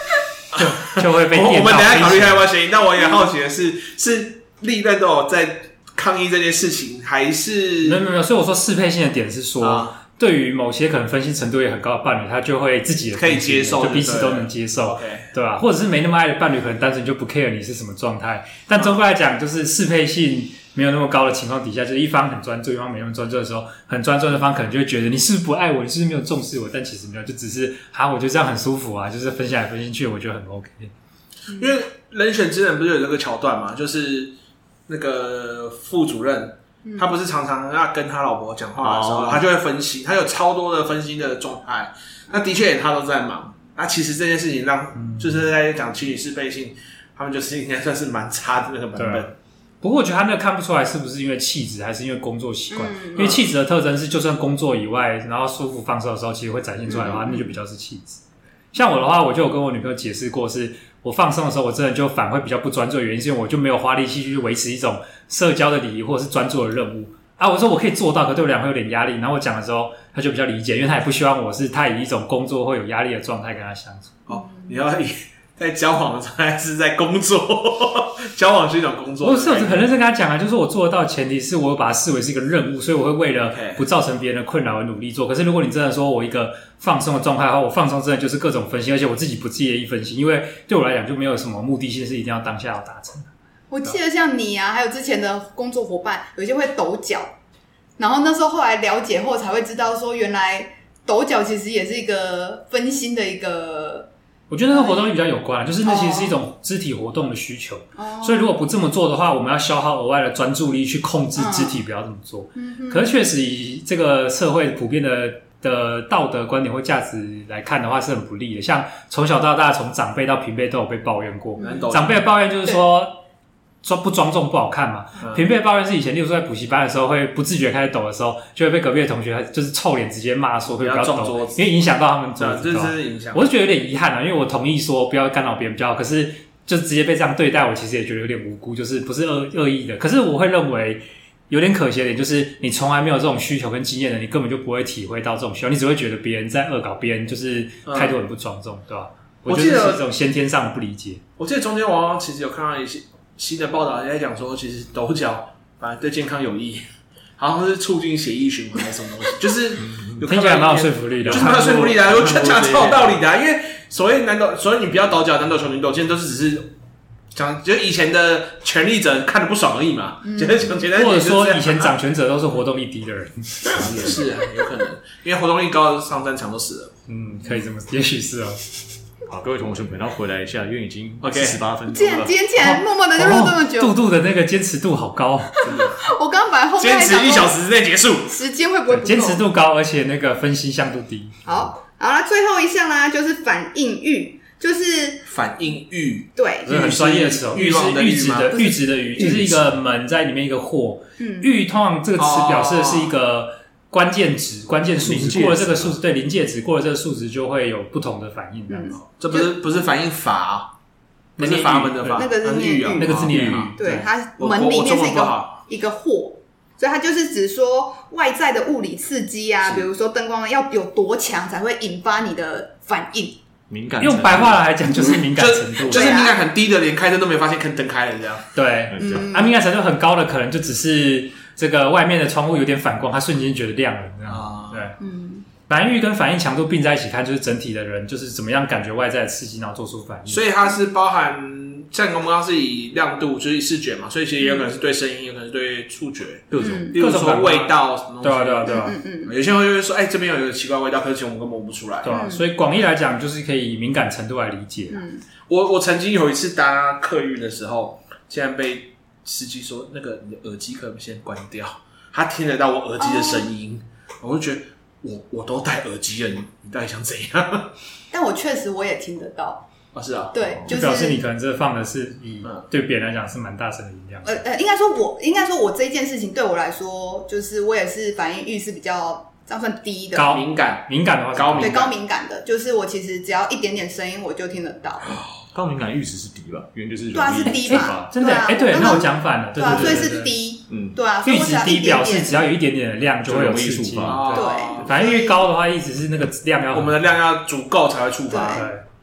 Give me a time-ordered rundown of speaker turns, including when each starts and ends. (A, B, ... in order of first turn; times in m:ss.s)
0:00.5-0:02.4 A
0:00.5-0:08.0 B
0:07.8-0:30.9 A
0:09.6-0:10.0 B
0:13.2-0:15.3 B
0:31.5-0:34.3 B
0:34.9-0:49.4 B
0:36.8-0:37.1 C
0:38.8-0:39.4 D
0:45.0-0:45.5 A
0:49.0-0:49.3 A
0:49.8-0:58.2 A
0:52.7-0:53.4 C
0:56.9-0:57.5 C
0:58.7-1:14.2 A
1:14.3-1:19.9 B
1:14.3-1:14.8 C
1:19.2-1:33.3 A
1:23.5-1:23.8 B
1:33.7-1:37.3 C
1:38.0-1:44.1 C
1:44.5-2:03.2 A
1:44.7-1:45.1 C
1:45.8-1:46.4 C
1:48.0-1:48.5 C
1:51.4-1:51.8 C
1:52.6-1:53.1 C
2:01.6-2:01.9 C
2:01.6-2:02.3 B
2:03.8-2:31.2 A
2:10.7-2:11.7 B
2:12.4-2:13.4 B
2:27.9-2:28.2 B
2:29.5-2:30.0 B
2:31.4-2:46.7 B
2:39.9-2:40.2 D
2:40.2-2:42.0 A
2:41.3-2:43.2 D
2:47.3-2:51.9 B
2:50.2-2:50.7 C
2:50.9-2:54.1 A
2:53.7-2:56.9 B
2:57.1-2:58.6 A
2:59.3-3:02.3 D
3:01.2-3:01.6 B
3:01.9-3:03.9 C
3:02.6-3:05.6 A
3:05.5-3:07.5 C
3:05.6-3:06.0 B
3:06.8-3:08.4 B
3:08.3-3:09.4 C
3:08.9-3:11.5 A
3:11.4-3:15.2 C
3:15.2-3:18.6 B
3:16.4-3:16.8 C
3:16.6-3:29.0 A
3:18.5-3:19.5 C
3:21.2-3:21.5 C
3:22.2-3:23.2 B
3:25.0-3:25.9 D
3:28.7-3:29.5 C
3:29.0-3:30.8 B
3:31.4-3:32.3 A
3:31.4-3:33.7 B
3:32.1-3:43.4 C
3:33.0-3:34.1 A
3:34.4-3:35.6 B
3:43.7-3:44.6 D
3:44.0-3:46.2 A
3:44.9-3:45.2 C
3:45.3-3:48.5 B
3:45.8-3:46.4 C
3:48.6-3:55.0 A
3:48.9-3:49.2 D
3:49.0-3:49.6 C
3:54.3-3:54.9 B
3:55.0-3:55.5 C
3:55.7-4:00.5 A
4:00.3-4:12.2 B
4:04.4-4:04.7 C
4:06.5-4:06.9 D
4:06.5-4:07.0 C
4:06.9-4:09.0 A
4:08.7-4:09.3 C
4:12.0-4:15.1 A
4:12.1-4:12.4 C
4:14.9-4:15.2 C
4:15.5-4:27.8 B
4:23.0-4:23.5 C
4:28.1-4:29.7 C
4:30.0-4:30.6 B
4:30.3-4:31.2 C
4:30.7-4:34.4 A
4:34.2-4:40.4 C
4:40.1-4:41.7 A
4:40.3-4:41.9 B
4:41.6-4:45.2 C
4:45.5-4:48.1 D
4:47.1-4:52.5 C
4:47.4-4:50.4 A
4:49.7-4:50.0 D
4:50.7-4:51.0 D
4:51.2-4:57.0 A
4:53.3-4:54.4 D
4:54.1-4:54.9 B
4:54.3-4:55.4 C
4:56.7-4:58.7 B
4:58.3-4:58.7 C
4:58.5-4:58.8 A